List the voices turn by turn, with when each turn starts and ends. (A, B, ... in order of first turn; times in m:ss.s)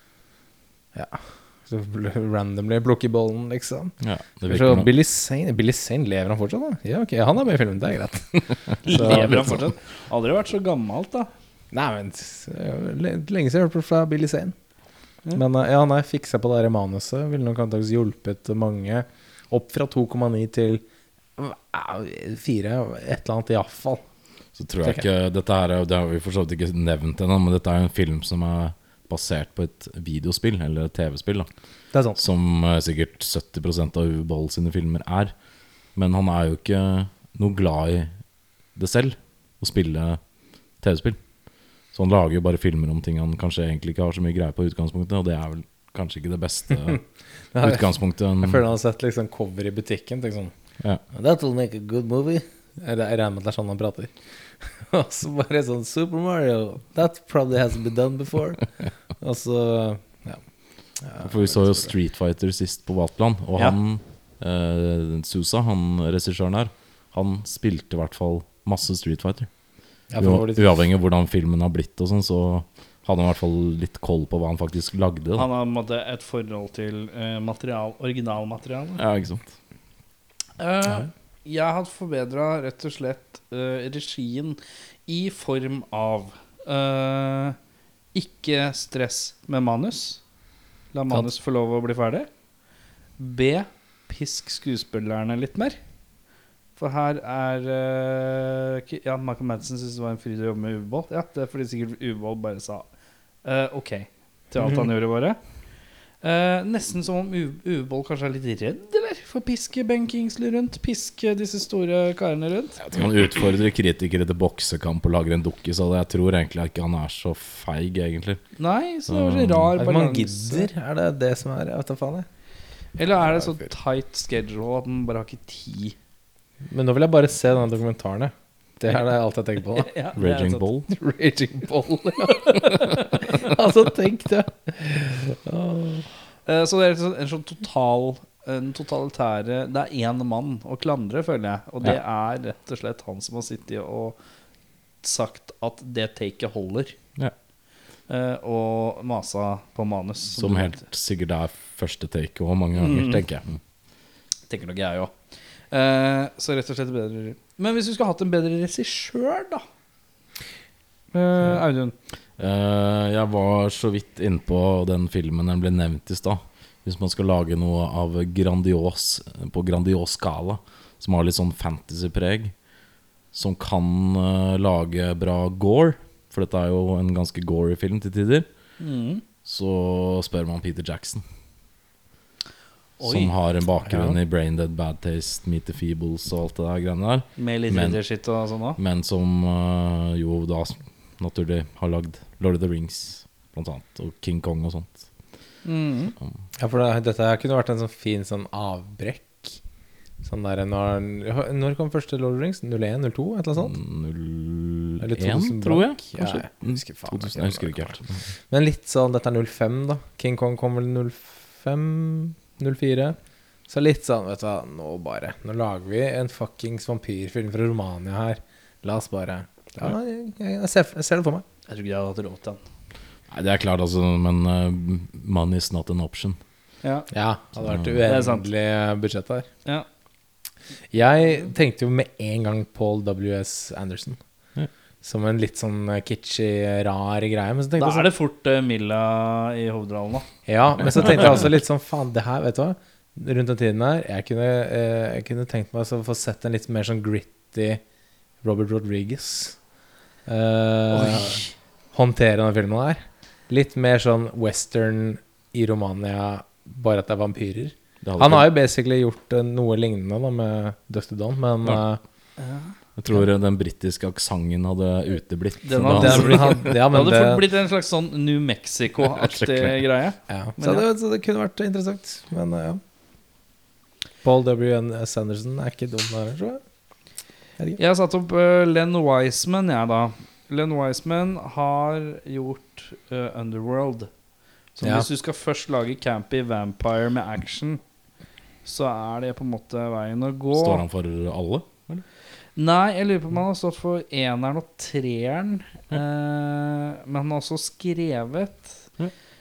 0:00.9-0:03.9 A
0:04.0-0:04.9 B
0:04.5-0:09.6 A
0:08.8-0:11.3 C
0:11.7-0:14.5 A
0:15.3-0:20.8 A
0:21.4-0:24.0 A
0:24.6-0:31.5 B
0:31.9-0:32.2 A
0:32.2-0:35.3 B
0:35.9-0:38.1 B
0:38.8-0:40.2 B
0:40.8-0:41.2 B
0:41.9-0:47.0 B
0:47.5-0:50.5 A
0:47.6-0:48.6 B
0:51.1-0:58.6 A
0:59.2-1:00.4 A
1:01.0-1:01.9 A
1:01.2-1:09.5 B
1:10.1-1:10.7 A
1:10.2-1:15.5 B
1:15.4-1:19.0 C
1:19.0-1:19.5 B
1:20.6-1:27.6 C
1:28.1-1:30.2 C
1:30.9-1:32.3 C
1:33.2-1:35.8 C
1:36.8-1:42.8 C
1:43.4-1:45.4 C
1:46.2-1:52.8 C
1:52.8-1:58.4 B
1:58.6-2:00.7 C
1:59.1-1:59.7 B
1:59.8-2:02.3 A
2:03.0-2:06.0 C
2:06.7-2:09.9 A
2:09.8-2:10.7 C
2:10.2-2:10.9 B
2:10.9-2:16.1 A
2:12.2-2:13.2 C
2:16.4-2:24.2 C
2:25.0-2:27.0 C
2:28.1-2:30.8 C
2:30.4-2:33.6 B
2:32.8-2:33.2 C
2:34.5-2:35.1 C
2:35.7-2:39.6 C
2:41.1-2:41.9 C
2:42.4-2:52.5 B
2:53.3-2:58.5 B
2:58.8-2:59.2 C
2:59.4-3:01.2 B
3:03.0-3:03.3 C
3:03.0-3:08.0 B
3:03.9-3:04.2 A
3:07.4-3:08.8 C
3:08.8-3:15.0 B
3:15.6-3:16.1 C
3:16.6-3:19.6 A
3:20.2-3:23.8 A
3:23.6-3:28.2 B
3:25.0-3:28.0 A
3:28.5-3:33.2 A
3:33.7-3:41.4 A
3:41.7-3:42.6 C
3:43.3-3:46.4 B
3:46.8-3:47.1 C
3:47.1-3:49.5 A
3:48.0-3:48.4 C
3:50.9-3:54.2 A
3:55.0-3:58.1 A
3:57.8-4:00.3 C
4:00.4-4:07.8 A
4:08.4-4:09.6 A
4:10.2-4:11.4 A
4:10.9-4:11.5 C
4:11.9-4:22.0 A
4:18.0-4:18.5 B
4:22.4-4:22.7 C
4:23.0-4:26.8 B
4:25.6-4:30.8 C
4:25.8-4:27.4 A
4:29.0-4:29.8 B
4:30.3-4:32.8 A
4:34.2-4:36.6 A
4:37.8-4:44.1 C
4:44.8-4:47.8 C
4:44.8-4:45.1 A
4:48.6-4:50.8 C
4:50.5-4:52.0 B
4:52.6-4:58.8 C